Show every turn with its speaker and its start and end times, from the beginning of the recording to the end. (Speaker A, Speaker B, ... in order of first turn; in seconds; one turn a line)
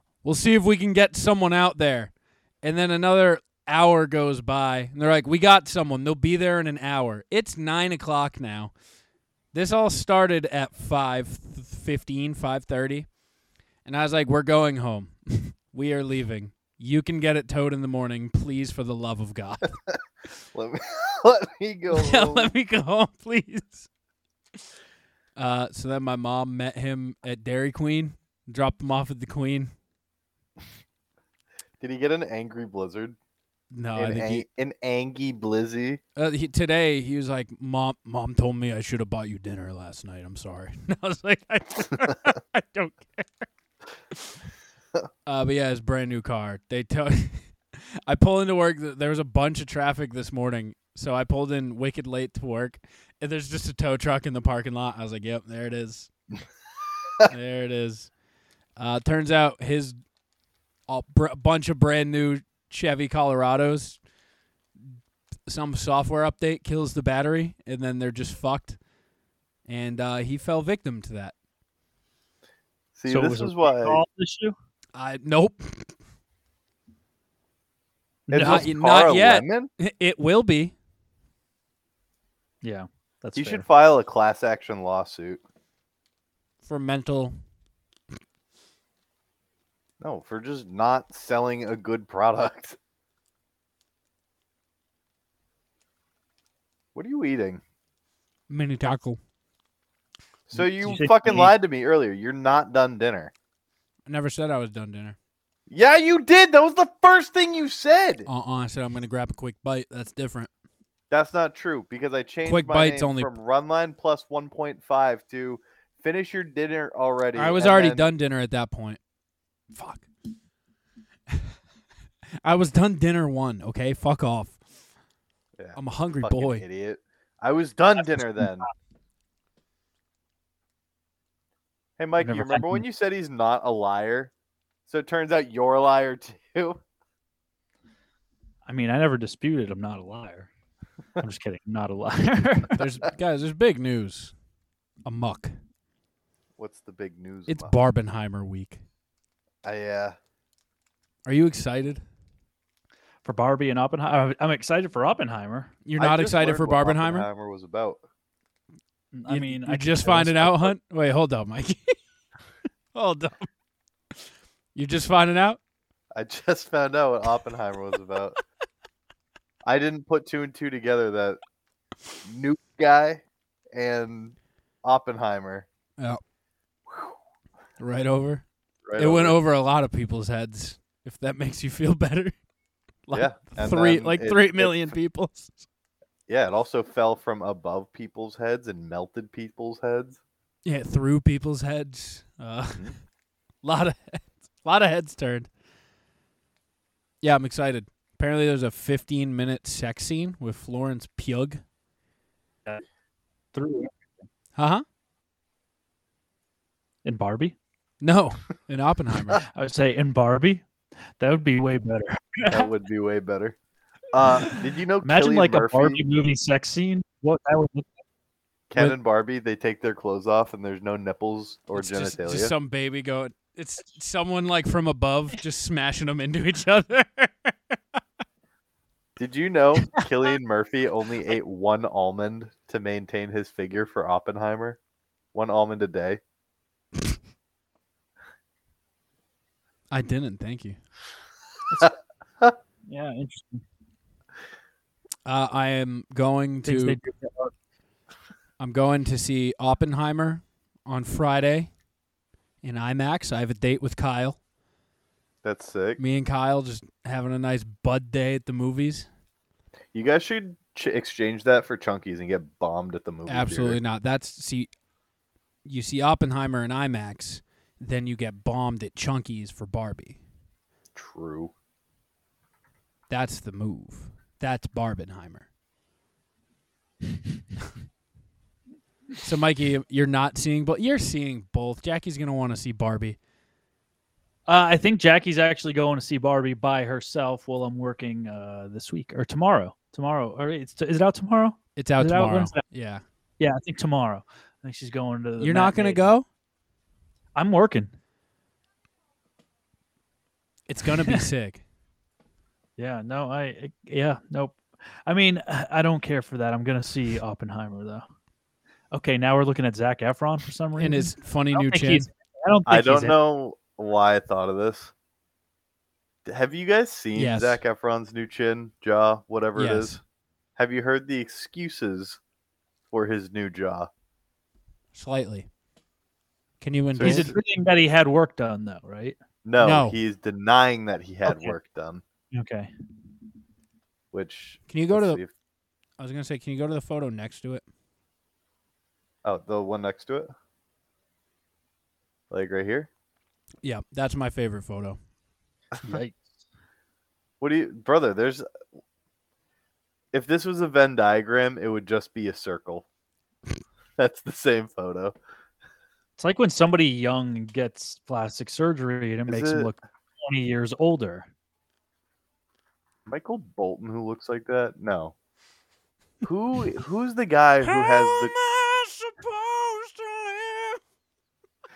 Speaker A: 0.2-8.7
Speaker A: 9.5-13.1
Speaker A: 13.8-19.8
Speaker B: 20.5-22.5
Speaker A: 21.9-23.9
Speaker A: 25.4-29.7
Speaker B: 31.8-33.2
Speaker A: 33.7-34.5
Speaker B: 34.0-36.0
Speaker A: 36.2-43.5
Speaker A: 45.3-47.5
Speaker A: 48.1-56.1
Speaker A: 57.2-58.1
Speaker A: 58.8-60.0
Speaker A: 60.9-64.0
Speaker A: 65.5-68.8
Speaker A: 69.7-71.3
Speaker B: 73.0-74.0
Speaker C: 73.1-74.5
Speaker A: 75.0-75.9
Speaker C: 78.3-78.7
Speaker B: 78.3-79.7
Speaker A: 78.4-80.8
Speaker C: 82.6-83.7
Speaker B: 83.3-85.4
Speaker A: 86.6-87.3
Speaker B: 90.0-92.8
Speaker B: 97.0-97.6
Speaker A: 98.5-99.2
Speaker B: 100.5-103.3
Speaker C: 100.5-101.5
Speaker A: 104.1-105.2
Speaker B: 105.7-108.3
Speaker A: 108.3-110.5
Speaker B: 111.1-118.1
Speaker A: 112.5-113.3
Speaker A: 117.3-119.0
Speaker A: 119.7-120.1
Speaker A: 122.4-124.6
Speaker B: 125.6-128.7
Speaker A: 125.8-126.6
Speaker B: 132.0-134.3
Speaker C: 132.2-132.8
Speaker B: 134.9-136.8
Speaker C: 138.7-140.5
Speaker C: 141.2-142.8
Speaker A: 142.8-144.3
Speaker A: 145.1-145.6
Speaker B: 146.6-147.8
Speaker A: 147.5-148.8
Speaker B: 149.6-150.2
Speaker A: 151.3-152.0
Speaker C: 153.2-155.7
Speaker A: 155.8-157.3
Speaker B: 156.0-158.0
Speaker C: 159.1-160.7
Speaker A: 159.3-161.9
Speaker A: 162.9-163.5
Speaker A: 164.8-165.6
Speaker B: 166.1-168.4
Speaker B: 169.7-171.4
Speaker B: 172.2-175.7
Speaker B: 176.9-177.2
Speaker A: 177.8-178.4
Speaker B: 178.9-179.4
Speaker A: 179.0-182.3
Speaker A: 183.1-185.6
Speaker B: 183.1-184.9
Speaker B: 186.3-190.2
Speaker A: 190.7-192.9
Speaker A: 193.6-195.5
Speaker A: 197.2-201.6
Speaker C: 203.5-204.0
Speaker A: 204.6-204.8
Speaker C: 207.1-207.6
Speaker A: 208.0-209.4
Speaker C: 209.5-210.7
Speaker C: 211.2-212.7
Speaker B: 212.5-213.6
Speaker B: 214.1-216.0
Speaker C: 214.4-217.9
Speaker B: 218.7-222.5
Speaker A: 221.7-227.8
Speaker B: 229.2-234.8
Speaker B: 235.3-236.2
Speaker A: 239.9-240.8
Speaker C: 242.9-243.6
Speaker A: 245.3-247.0
Speaker C: 246.7-247.5
Speaker A: 248.6-251.7
Speaker A: 252.6-254.4
Speaker B: 255.4-256.0
Speaker A: 256.0-259.1
Speaker B: 259.9-263.8
Speaker A: 263.3-264.7
Speaker A: 265.7-270.2
Speaker B: 270.9-271.5
Speaker A: 273.1-275.4
Speaker A: 279.2-283.2
Speaker C: 284.5-292.6
Speaker A: 291.8-293.0
Speaker C: 293.4-296.1
Speaker A: 295.4-296.2
Speaker C: 297.4-297.9
Speaker A: 300.7-301.6
Speaker C: 302.8-308.1
Speaker C: 308.9-313.2
Speaker A: 310.8-312.1
Speaker B: 312.7-314.9
Speaker B: 316.3-320.0
Speaker A: 317.1-317.6
Speaker A: 319.6-320.0
Speaker B: 320.6-322.2
Speaker B: 322.9-323.9
Speaker A: 324.9-325.5
Speaker A: 326.6-327.3
Speaker B: 326.9-327.4
Speaker C: 327.0-329.2
Speaker B: 329.4-332.0
Speaker A: 329.6-330.0
Speaker C: 331.3-331.6
Speaker C: 332.3-332.7
Speaker B: 334.1-335.3
Speaker A: 334.7-335.2
Speaker A: 336.0-337.6
Speaker B: 339.2-340.3
Speaker B: 342.3-342.9
Speaker A: 343.6-345.0
Speaker C: 345.8-346.2
Speaker B: 347.4-348.4
Speaker B: 350.1-352.9
Speaker B: 354.0-355.2
Speaker C: 356.2-361.3
Speaker B: 359.3-359.7
Speaker B: 363.1-365.1
Speaker B: 366.2-368.3
Speaker A: 367.6-370.8